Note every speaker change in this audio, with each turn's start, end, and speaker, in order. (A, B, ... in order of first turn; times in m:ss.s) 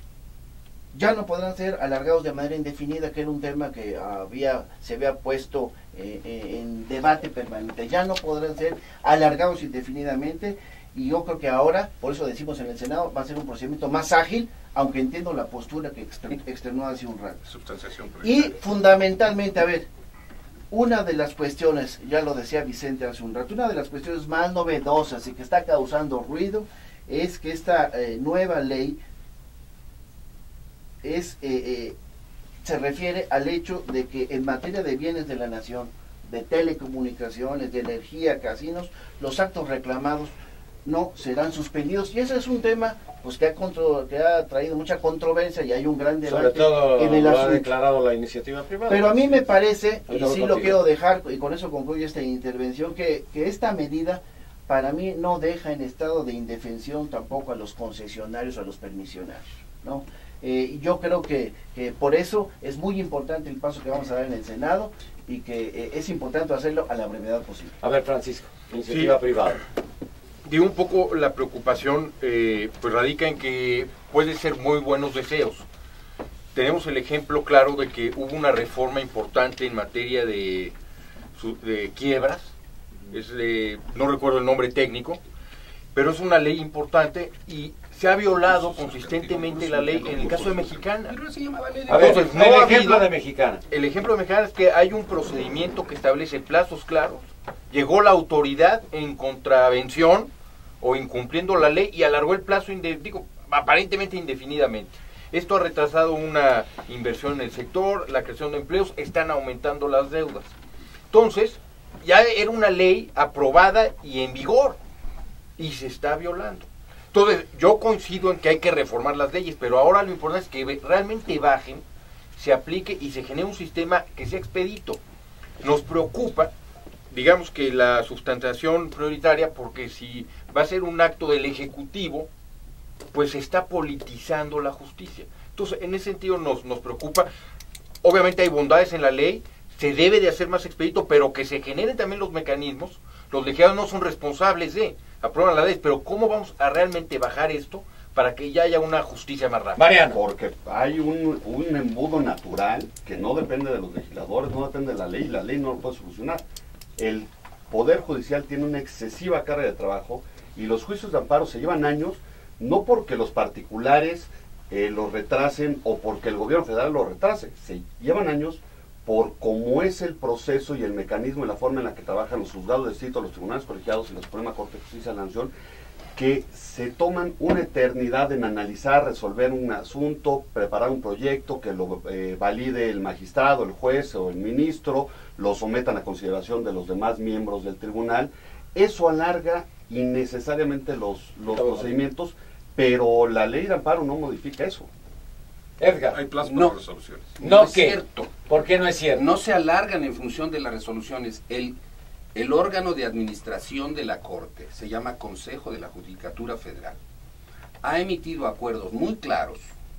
0:00.9-0:17.4 A
0:17.4-0:18.6 B
0:18.2-0:19.9 A
0:20.7-0:29.0 A
0:31.0-0:32.0 A
0:32.6-0:40.3 A
0:40.8-0:47.7 A
0:46.2-0:49.5 C
0:48.9-1:07.8 A
0:50.1-0:50.8 C
1:07.8-1:09.6 C
1:08.9-1:09.2 D
1:10.4-1:15.6 D
1:16.5-1:20.8 D
1:21.4-1:22.5 D
1:23.1-1:25.2 D
1:25.9-1:31.2 D
1:28.3-1:30.8 B
1:31.1-1:32.3 E
1:31.9-1:33.6 C
1:31.9-1:33.1 D
1:33.7-1:40.3 D
1:40.8-1:50.5 D
1:51.1-1:54.8 D
1:55.6-2:01.8 D
2:02.4-2:05.0 D
2:05.6-2:06.5 D
2:07.1-2:12.3 D
2:13.1-2:17.3 D
2:18.0-2:29.9 D
2:29.8-2:30.2 C
2:30.1-2:36.4 F
2:37.0-2:55.5 F
2:56.1-3:14.9 F
3:11.5-3:12.0 C
3:15.8-3:16.2 C
3:16.1-3:17.4 B
3:16.4-3:16.8 E
3:17.4-3:18.3 E
3:17.4-3:19.2 C
3:19.1-3:21.8 E
3:22.3-3:27.0 E
3:27.8-3:29.7 E